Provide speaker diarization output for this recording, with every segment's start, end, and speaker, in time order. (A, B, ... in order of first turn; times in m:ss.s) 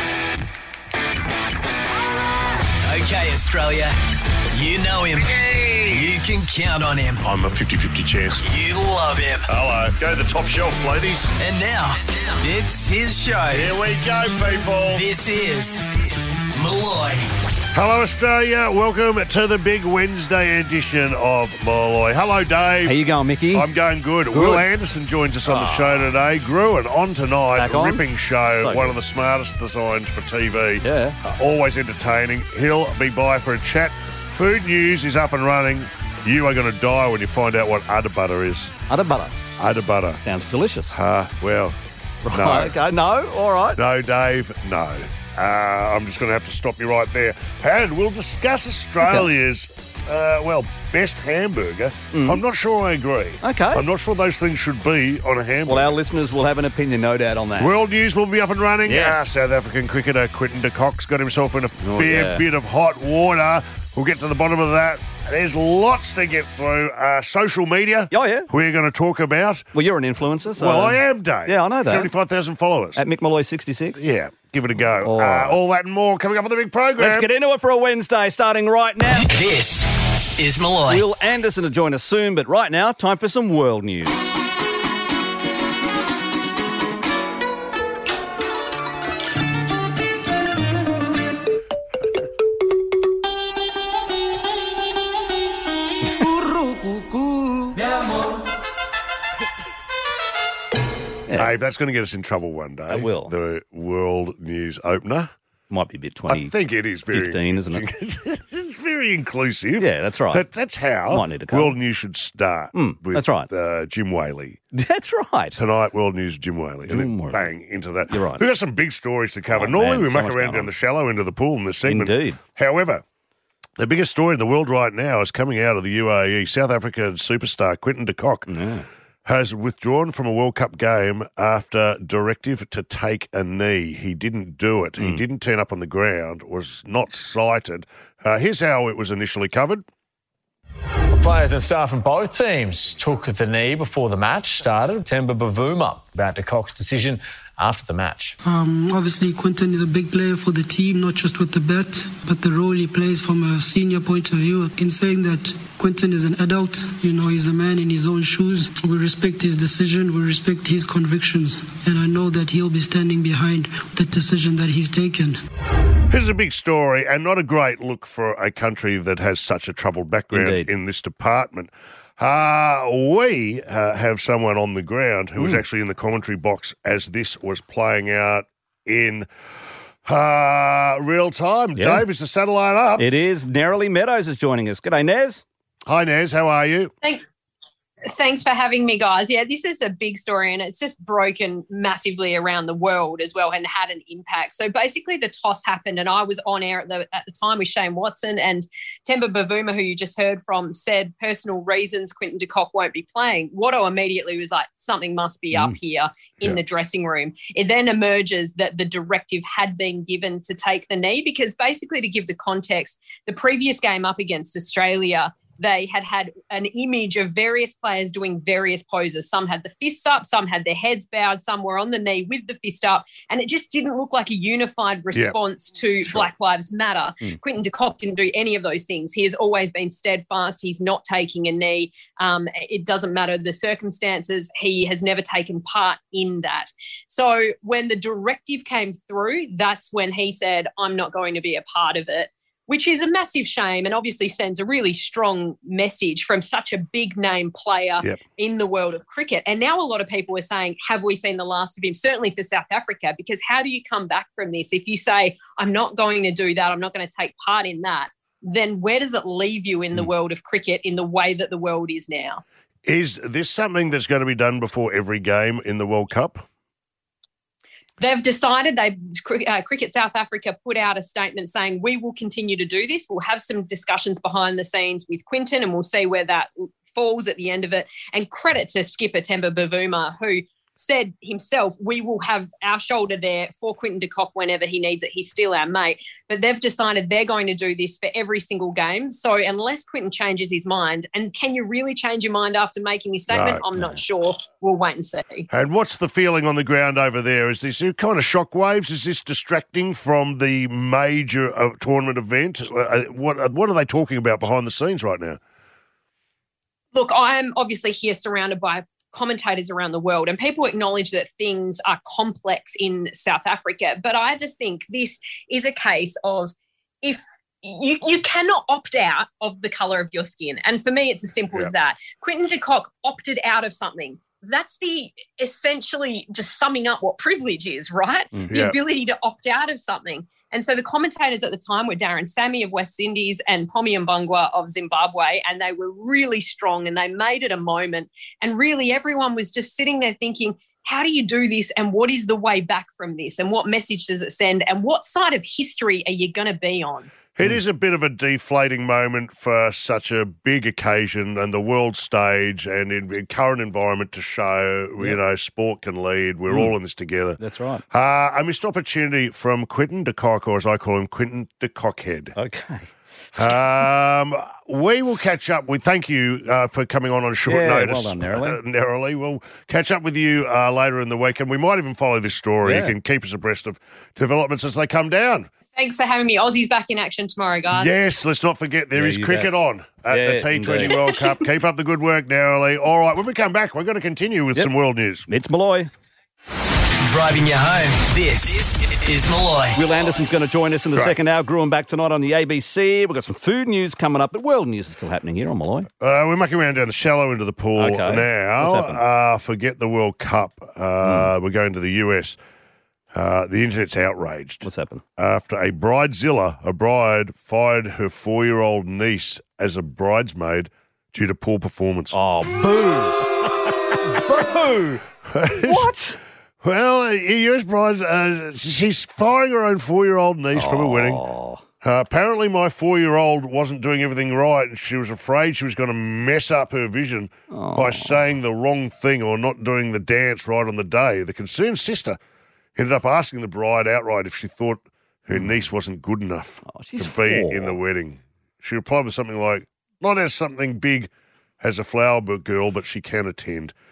0:02.8-0:04.0 A
0:04.5-0:07.2 A
0:05.4-0:06.1 B
0:07.2-0:08.5 B
0:08.4-0:09.5 A
0:09.5-0:11.3 B
0:11.4-0:13.7 A
0:13.5-0:15.0 B
0:14.9-0:17.3 A
0:17.7-0:23.0 B
0:22.8-0:23.7 C
0:23.5-0:38.7 B
0:24.3-0:24.6 C
0:25.5-0:26.1 C
0:27.6-0:28.0 C
0:28.6-0:29.0 C
0:30.8-0:31.2 C
0:38.9-0:39.4 C
0:39.6-0:40.2 B
0:40.2-0:41.0 C
0:40.9-0:41.8 B
0:42.2-0:43.8 C
0:42.3-0:42.7 B
0:43.8-0:55.9 B
0:52.1-0:52.4 C
0:53.4-0:53.8 C
0:55.7-0:57.7 C
0:57.6-1:09.7 B
0:58.9-0:59.3 C
1:01.8-1:02.4 C
1:08.1-1:08.5 C
1:09.7-1:12.1 C
1:10.6-1:13.0 B
1:13.0-1:14.0 C
1:14.0-1:17.3 B
1:15.0-1:15.6 C
1:17.0-1:19.3 C
1:19.2-1:21.0 A
1:20.9-1:24.2 C
1:41.4-1:45.3 B
1:42.9-1:43.3 C
1:45.7-1:46.5 C
1:46.3-1:54.6 B
1:47.1-1:47.8 C
1:49.8-1:50.4 C
1:51.1-1:51.7 C
1:52.7-1:53.5 C
1:54.7-1:55.6 C
1:55.6-2:03.0 B
1:56.9-1:57.4 C
1:58.1-1:58.4 C
1:59.5-2:00.7 C
2:01.9-2:02.4 C
2:03.8-2:08.5 B
2:08.5-2:08.9 C
2:09.2-2:19.8 B
2:21.1-2:28.4 D
2:28.4-2:45.4 E
2:46.1-2:59.3 B
2:50.3-2:50.7 C
3:00.0-3:03.1 B
3:01.8-3:02.0 C
3:03.0-3:05.4 C
3:05.9-3:06.9 B
3:08.1-4:22.4 F
3:46.0-3:46.3 B
4:22.8-4:26.4 B
4:28.0-4:55.5 F
4:53.3-4:53.6 B
4:55.5-5:05.4 B
5:06.9-5:47.1 F
5:47.4-5:57.4 B
5:57.4-5:57.8 C
5:57.9-6:02.3 B
6:02.4-6:02.9 C
6:03.4-6:15.5 B
6:07.5-6:08.6 C
6:12.6-6:12.9 C
6:15.8-6:17.9 F
6:17.7-6:25.3 B
6:19.0-6:19.5 C
6:20.1-6:21.0 C
6:25.3-6:25.9 C
6:27.0-6:29.8 A
6:29.8-6:35.9 C
6:36.0-6:42.4 B
6:37.8-6:39.0 C
6:41.0-6:41.3 C
6:43.1-6:52.2 B
6:44.6-6:45.0 C
6:52.1-6:53.5 C
6:54.0-6:55.0 C
6:55.2-6:55.9 B
6:55.6-6:56.2 C
6:56.6-7:01.2 B
7:00.6-7:01.6 C
7:01.8-7:12.2 B
7:07.5-7:08.2 C
7:12.8-7:21.1 B
7:16.6-7:17.8 C
7:21.6-7:23.7 B